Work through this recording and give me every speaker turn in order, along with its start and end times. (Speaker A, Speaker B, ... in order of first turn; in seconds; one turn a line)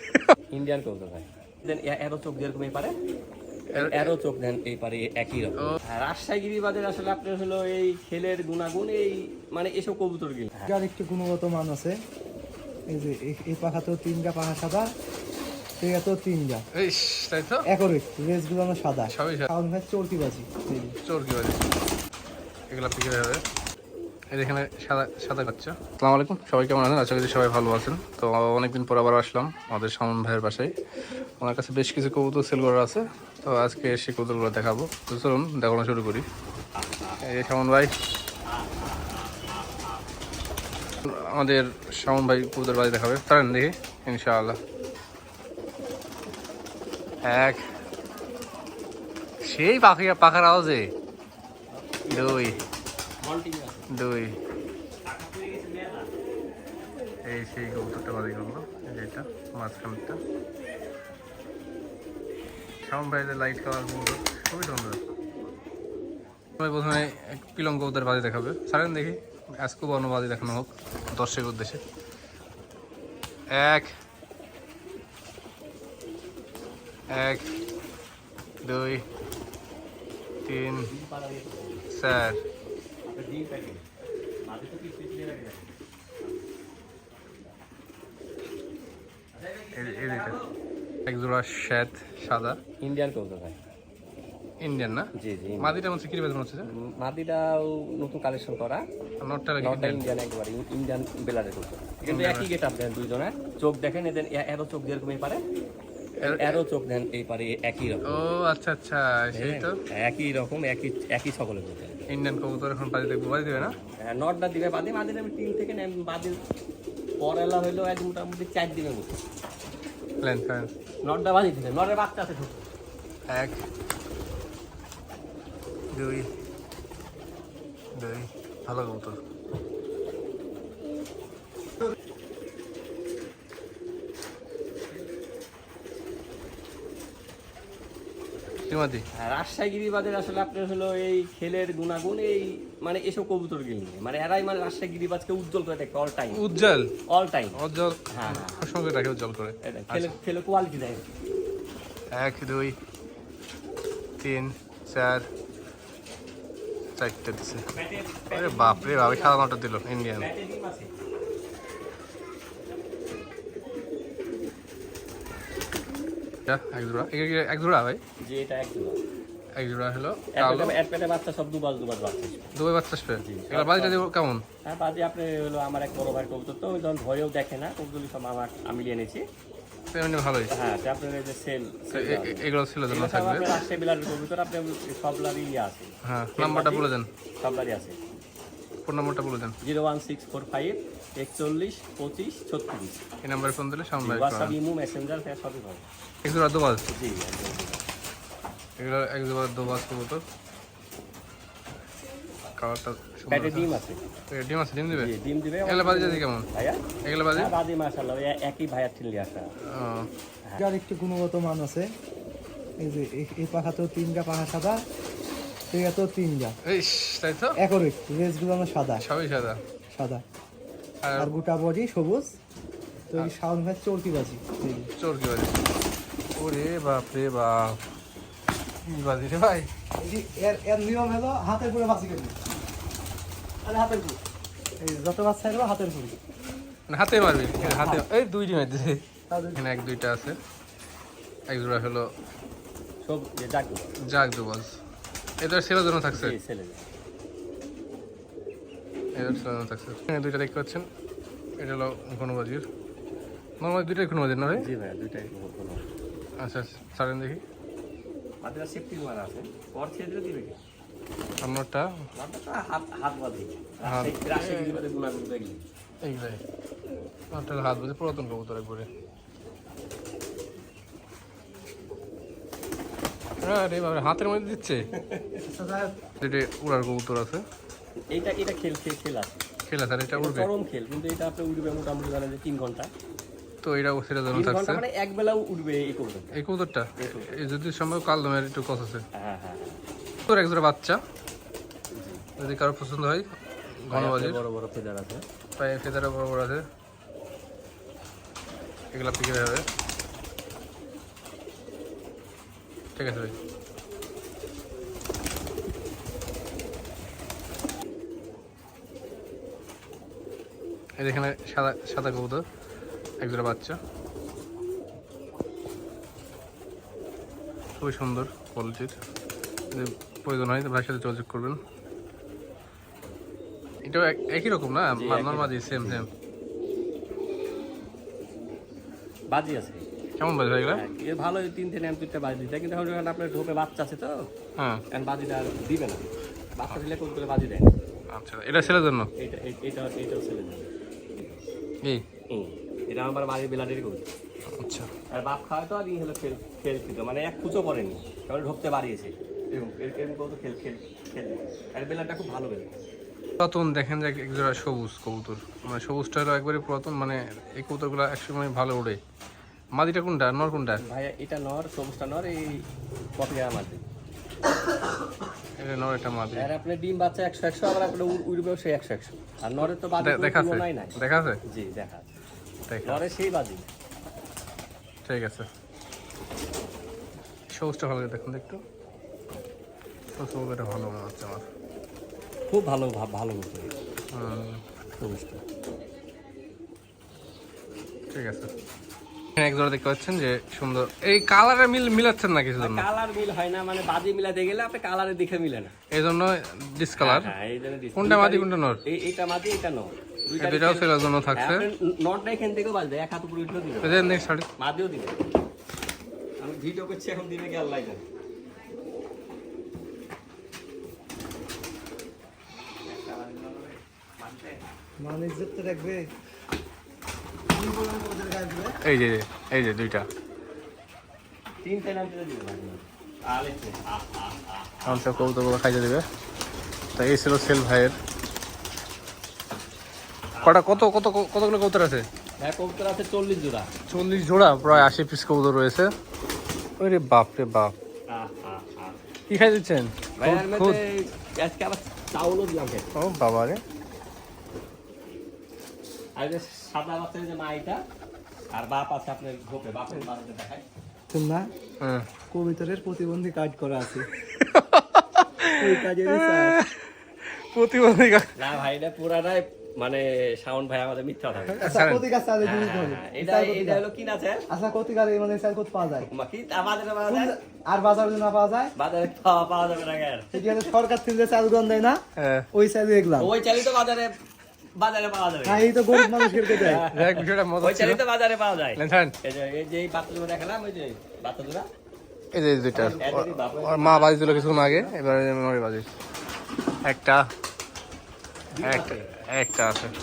Speaker A: 0.5-3.0
Speaker B: 3.7-4.1
Speaker A: 3.8-10.7
Speaker C: 10.7-12.0
Speaker C: 12.9-14.9
Speaker C: 15.8-16.6
Speaker B: 16.8-17.7
Speaker C: 17.7-20.9
Speaker B: 19.1-19.5
Speaker B: 21.0-21.6
Speaker B: 22.7-23.4
Speaker B: 24.3-30.7
Speaker B: 31.4-36.2
Speaker A: 36.8-37.4
Speaker B: 37.2-37.9
Speaker A: 38.5-40.0
Speaker B: 41.0-44.6
Speaker B: 47.2-47.6
Speaker B: 49.4-50.9
Speaker A: 51.7-52.7
Speaker B: 52.1-52.6
Speaker A: 53.2-53.9
Speaker B: 53.9-54.4
Speaker A: 55.1-56.1
Speaker B: 57.2-60.2
Speaker B: 62.8-65.0
Speaker B: 66.6-71.8
Speaker B: 73.5-73.9
Speaker B: 77.1-77.5
Speaker B: 78.6-79.0
Speaker B: 80.5-80.9
Speaker A: 80.9-81.8
Speaker B: 81.9-82.4
Speaker A: 83.1-83.8
Speaker A: 84.5-85.7
Speaker A: 89.3-90.5
Speaker B: 89.7-90.4
Speaker B: 91.1-92.6
Speaker A: 92.8-93.6
Speaker B: 94.6-96.7
Speaker A: 95.2-95.8
Speaker A: 96.7-98.8
Speaker B: 99.2-100.1
Speaker A: 99.6-105.4
Speaker B: 102.0-102.5
Speaker B: 106.2-106.6
Speaker A: 106.2-108.3
Speaker B: 108.0-109.8
Speaker A: 109.3-112.1
Speaker B: 112.1-113.8
Speaker A: 113.5-116.4
Speaker A: 117.2-119.1
Speaker B: 120.2-120.7
Speaker A: 121.0-122.6
Speaker B: 123.3-123.6
Speaker B: 125.9-126.3
Speaker B: 128.0-129.2
Speaker B: 138.7-139.1
Speaker A: 139.2-146.4
Speaker B: 146.3-146.9
Speaker A: 147.1-147.6
Speaker B: 147.6-150.1
Speaker A: 148.1-148.7
Speaker A: 149.7-151.0
Speaker B: 152.1-152.8
Speaker B: 154.2-155.3
Speaker B: 157.0-157.7
Speaker A: 157.7-159.5
Speaker B: 158.3-160.3
Speaker A: 160.2-160.9
Speaker B: 166.5-168.0
Speaker A: 168.2-169.0
Speaker B: 169.6-170.8
Speaker A: 170.3-172.6
Speaker B: 172.6-174.4
Speaker A: 173.2-174.1
Speaker A: 174.7-179.2
Speaker B: 179.9-180.5
Speaker A: 180.5-186.9
Speaker B: 181.9-183.5
Speaker B: 186.0-187.1
Speaker A: 187.4-188.0
Speaker B: 188.9-189.6
Speaker A: 189.6-193.1
Speaker B: 193.2-194.6
Speaker A: 194.0-195.9
Speaker B: 196.2-196.8
Speaker A: 196.9-197.8
Speaker B: 198.8-200.2
Speaker B: 202.6-205.1
Speaker A: 203.3-204.0
Speaker A: 204.9-206.8
Speaker B: 205.7-206.5
Speaker B: 207.1-207.5
Speaker A: 207.3-209.5
Speaker B: 209.7-210.1
Speaker C: 210.6-211.9
Speaker C: 212.8-214.8
Speaker C: 215.7-216.6
Speaker B: 216.7-217.6
Speaker C: 217.6-219.1
Speaker B: 219.0-219.6
Speaker C: 219.9-220.2
Speaker B: 221.0-221.3
Speaker C: 221.2-222.3
Speaker C: 223.1-224.9
Speaker B: 225.0-225.5
Speaker B: 226.4-227.8
Speaker B: 228.8-229.7
Speaker C: 230.0-232.4
Speaker C: 233.6-234.2
Speaker C: 234.8-236.2
Speaker B: 236.9-239.0
Speaker A: 237.6-238.0
Speaker C: 239.3-239.6
Speaker B: 239.6-240.4
Speaker B: 241.5-242.1
Speaker A: 243.1-243.9
Speaker B: 244.0-244.8
Speaker B: 245.4-246.3
Speaker A: 246.1-246.9
Speaker B: 249.2-250.9
Speaker B: 251.6-252.7
Speaker B: 253.6-254.7
Speaker A: 254.5-255.9
Speaker B: 256.4-257.4
Speaker A: 258.4-260.6
Speaker B: 261.4-261.9
Speaker A: 262.2-265.6
Speaker B: 263.8-264.8
Speaker B: 266.0-266.4
Speaker B: 267.3-268.9
Speaker B: 273.4-274.9
Speaker A: 274.9-275.4
Speaker C: 275.5-275.9
Speaker B: 276.2-277.4
Speaker A: 278.1-279.5
Speaker B: 279.7-280.5
Speaker A: 280.1-282.9
Speaker B: 283.6-284.8
Speaker A: 284.3-286.4
Speaker B: 286.4-289.0
Speaker A: 287.0-287.4
Speaker A: 289.2-289.8
Speaker B: 290.3-291.0
Speaker A: 291.9-292.3
Speaker B: 292.4-294.4
Speaker A: 293.9-295.2
Speaker B: 295.6-296.6
Speaker B: 298.9-299.6
Speaker B: 303.0-303.4
Speaker B: 311.0-312.4
Speaker B: 313.2-313.8
Speaker B: 317.8-319.0
Speaker B: 319.7-321.6
Speaker B: 323.9-326.1
Speaker A: 324.9-326.1
Speaker A: 329.3-329.9
Speaker B: 330.2-330.8
Speaker A: 330.7-334.1
Speaker B: 334.6-334.8
Speaker A: 334.9-336.0
Speaker A: 336.6-337.7
Speaker B: 338.1-339.1
Speaker A: 339.2-340.7
Speaker A: 342.3-344.1
Speaker B: 344.6-344.9
Speaker A: 345.1-352.7
Speaker B: 353.4-359.0
Speaker B: 359.8-360.8
Speaker A: 360.8-362.6
Speaker A: 363.2-363.9
Speaker B: 365.6-366.5
Speaker A: 366.4-371.0
Speaker B: 370.0-371.4
Speaker A: 371.5-372.1
Speaker B: 372.7-373.0
Speaker A: 372.9-373.7
Speaker B: 375.1-375.5
Speaker B: 377.6-378.6
Speaker B: 380.2-381.4
Speaker A: 382.5-383.7
Speaker B: 384.1-384.6
Speaker A: 385.0-385.4
Speaker B: 388.1-388.5
Speaker B: 389.4-392.9
Speaker A: 392.6-395.7
Speaker B: 395.9-397.3
Speaker A: 397.0-405.2
Speaker B: 398.0-398.8
Speaker B: 400.4-401.7
Speaker B: 403.8-404.5
Speaker A: 406.4-408.0
Speaker A: 412.9-414.6
Speaker C: 415.0-416.0
Speaker C: 417.5-418.8
Speaker B: 418.8-420.1
Speaker A: 421.6-425.3
Speaker B: 424.9-426.1
Speaker B: 427.0-428.0
Speaker A: 430.3-430.9
Speaker B: 430.4-432.1
Speaker A: 432.4-433.7
Speaker B: 433.9-435.9
Speaker A: 434.7-434.9
Speaker B: 436.8-437.7
Speaker A: 438.1-439.0
Speaker B: 439.3-440.8
Speaker A: 440.2-443.0
Speaker B: 442.9-443.6
Speaker A: 446.2-447.8
Speaker A: 448.6-450.6
Speaker C: 451.1-451.5
Speaker B: 451.8-452.1
Speaker C: 452.3-454.1
Speaker B: 454.3-458.3
Speaker C: 455.6-456.5
Speaker A: 458.4-461.8
Speaker B: 461.5-462.0
Speaker C: 461.6-463.8
Speaker A: 462.4-464.5
Speaker C: 464.5-466.1
Speaker A: 466.1-467.3
Speaker C: 467.1-468.7
Speaker A: 468.8-470.3
Speaker C: 470.3-472.0
Speaker B: 472.2-472.5
Speaker C: 472.5-473.3
Speaker A: 473.2-474.2
Speaker A: 474.8-475.8
Speaker C: 475.4-476.9
Speaker A: 476.5-481.7
Speaker B: 476.9-478.0
Speaker B: 478.8-479.1
Speaker B: 482.3-485.9
Speaker A: 482.7-485.0
Speaker B: 486.8-487.3
Speaker A: 488.5-489.2
Speaker B: 488.6-489.9